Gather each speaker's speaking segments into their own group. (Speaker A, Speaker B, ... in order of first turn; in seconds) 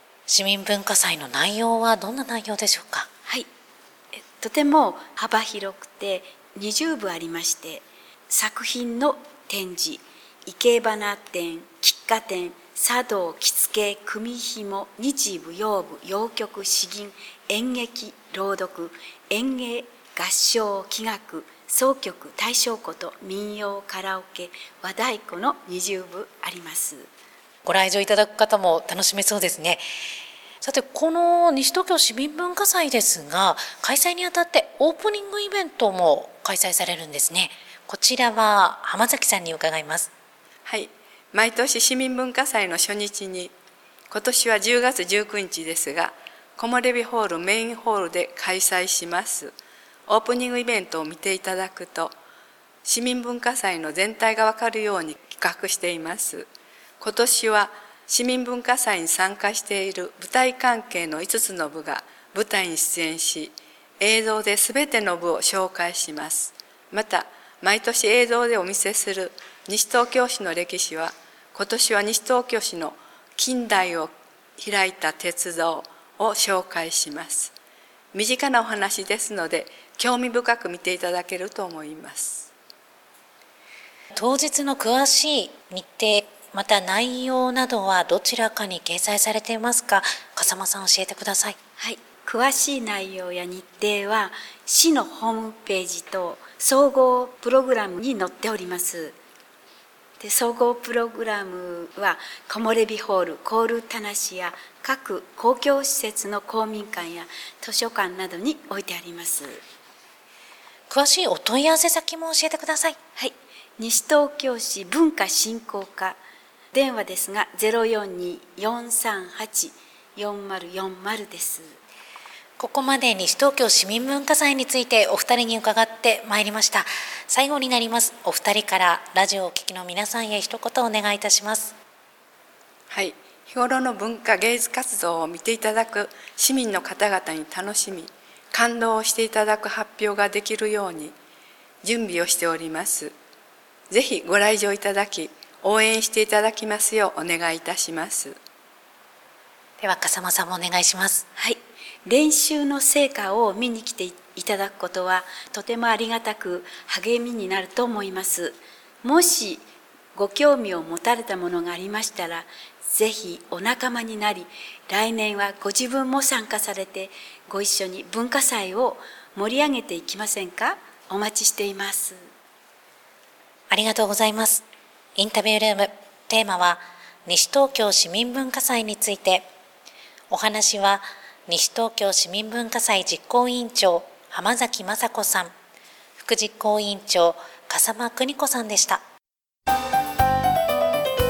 Speaker A: 0.3-3.1, 27.6-29.8, 30.6-40.1, 84.1-91.5, 110.9-113.0, 122.6-131.7, 149.8-151.2, 173.7-174.6, 175.2-179.5, 180.3-185.5, 186.2-189.0
Speaker B: 4.1-27.1, 91.8-99.2, 100.2-109.6, 113.2-116.2, 116.7-121.7, 151.4-159.6, 160.1-172.3
Speaker C: 40.6-43.5, 44.1-49.5, 50.1-52.1, 52.8-56.5, 57.0-77.5, 78.1-82.5, 132.9-141.1, 141.8-143.1, 143.9-148.3